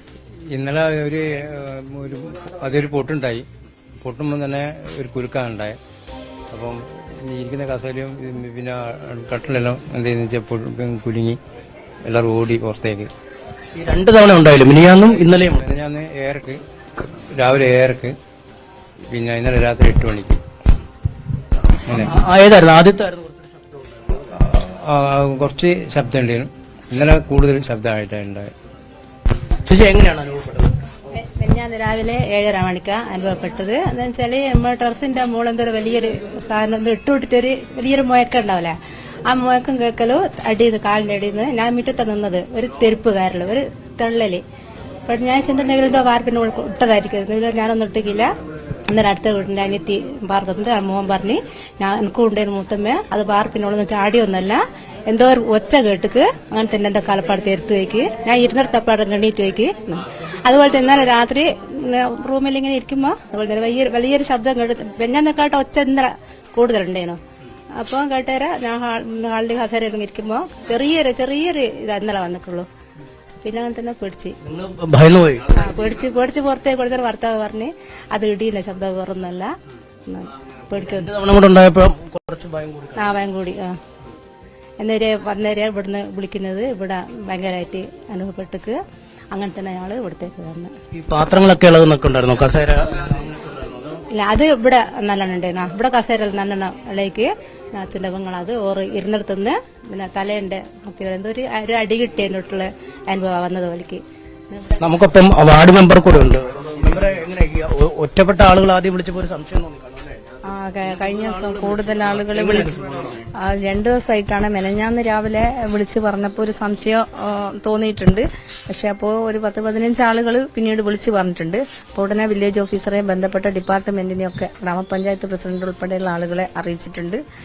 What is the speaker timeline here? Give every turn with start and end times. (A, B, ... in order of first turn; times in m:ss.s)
0:00.5-0:03.4 A
0:04.0-0:05.8 A
0:06.5-0:11.4 A
0:12.0-0:13.1 A
0:13.7-0:15.6 B
0:15.1-0:18.1 A
0:19.1-0:20.4 A
0:21.9-0:22.1 A
0:21.9-0:24.2 B
0:24.3-0:28.5 A
0:29.6-0:30.7 B
0:31.1-0:38.8 C
0:39.3-0:44.4 C
0:45.1-0:48.3 C
0:48.9-1:07.2 C
1:07.8-1:12.7 C
1:13.4-1:14.4 C
1:14.4-1:15.5 B
1:15.5-1:19.5 C
1:20.1-1:21.1 C
1:20.8-1:23.2 B
1:23.0-1:23.8 C
1:24.8-1:28.8 C
1:29.3-1:30.7 C
1:30.9-1:34.0 B
1:34.1-1:44.8 C
1:44.8-1:50.4 B
1:50.4-1:52.7 D
1:50.9-1:53.3 B
1:53.4-2:07.2 D